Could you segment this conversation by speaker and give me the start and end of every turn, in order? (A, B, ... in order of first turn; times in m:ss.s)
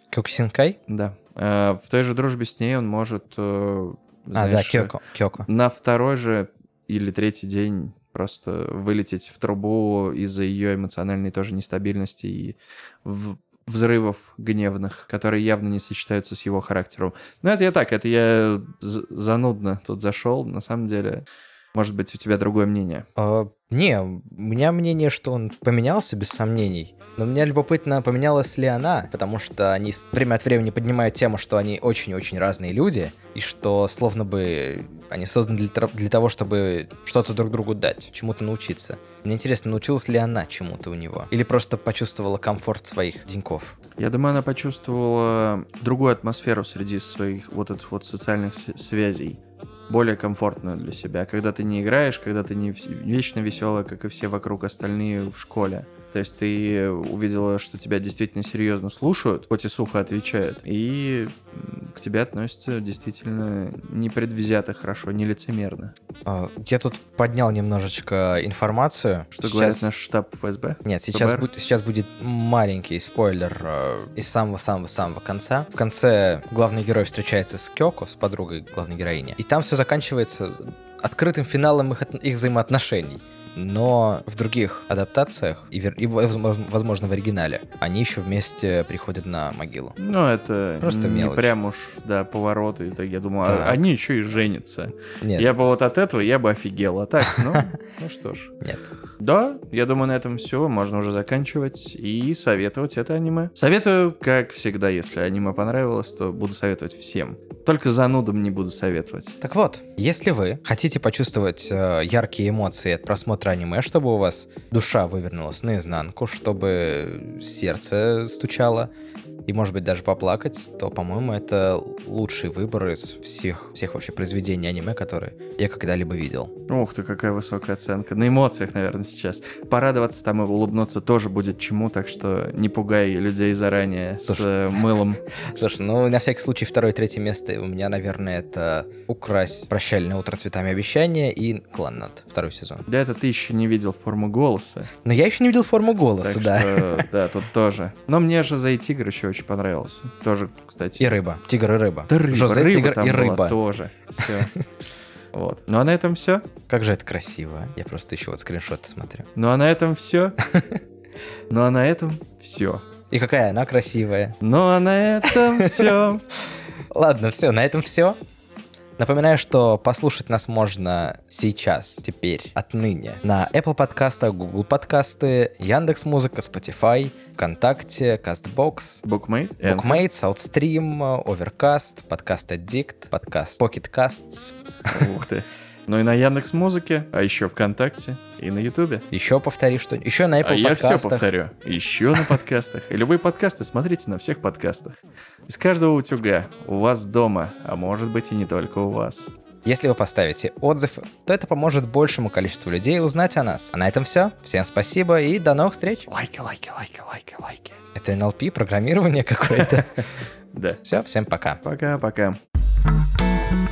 0:00.1-0:00.8 A
0:00.9-0:05.0 B
0:04.4-0:05.5 A
0:05.5-0:23.1 B
0:23.2-0:43.8 A
0:44.0-1:06.0 B
1:06.3-1:09.9 A
1:09.3-1:11.5 B
1:10.8-1:30.0 A
1:30.0-1:38.6 B
1:30.8-1:31.5 A
1:33.4-1:33.8 A
1:35.2-1:35.5 A
1:37.3-1:37.7 A
1:39.2-1:49.4 B
1:49.4-1:58.9 A
1:59.4-2:06.5 A
2:06.7-2:15.2 B
2:14.3-2:14.8 A
2:15.3-2:22.8 A
2:22.9-2:24.9 B
2:25.0-2:27.1 A
2:26.2-2:31.2 B
2:31.0-2:33.6 A
2:32.1-2:34.5 B
2:35.3-2:36.5 B
2:36.7-2:39.3 A
2:39.4-2:40.4 B
2:40.4-2:40.8 A
2:41.5-2:42.8 B
2:43.1-2:44.4 A
2:44.4-2:46.2 B
2:45.2-2:46.1 A
2:46.9-2:48.2 A
2:49.0-2:59.0 A
2:59.0-3:00.0 B
2:59.6-3:05.1 A
3:04.9-3:09.0 B
3:09.1-3:11.3 A
3:10.4-3:19.3 B
3:19.6-3:26.1 A
3:26.1-3:27.8 B
3:28.0-3:30.0 A
3:29.6-3:30.8 B
3:30.8-3:31.6 A
3:31.6-3:32.4 B